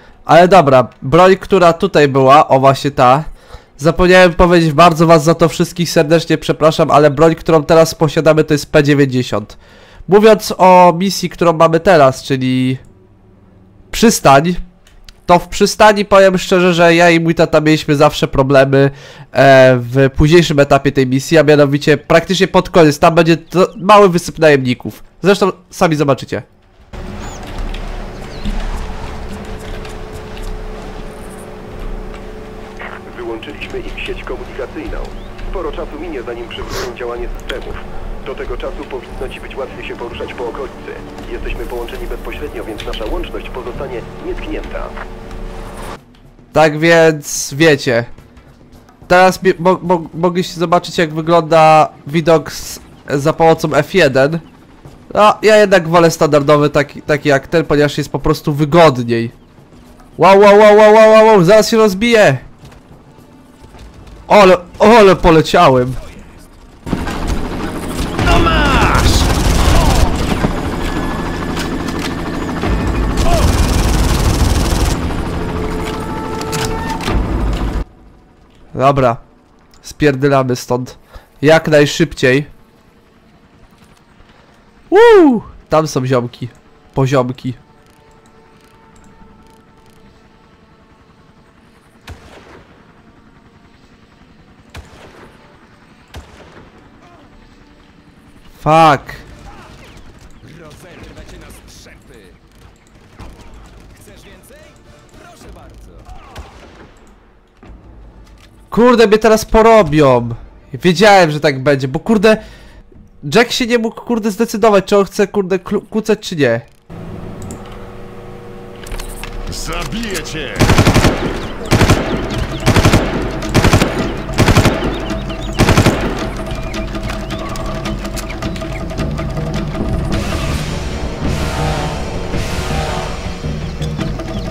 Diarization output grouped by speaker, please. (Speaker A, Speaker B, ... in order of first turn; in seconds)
Speaker A: 0.2-12.8, 13.9-14.6, 15.2-26.4, 46.5-48.1, 49.1-54.4, 55.1-59.3, 60.2-62.4, 64.3-66.0, 78.7-79.2, 79.8-82.5, 84.9-87.6, 98.6-99.2, 108.7-112.4, 113.2-116.7
Speaker B: 33.0-45.0
Speaker C: 68.3-69.2, 100.4-102.4, 104.0-106.0, 119.5-120.7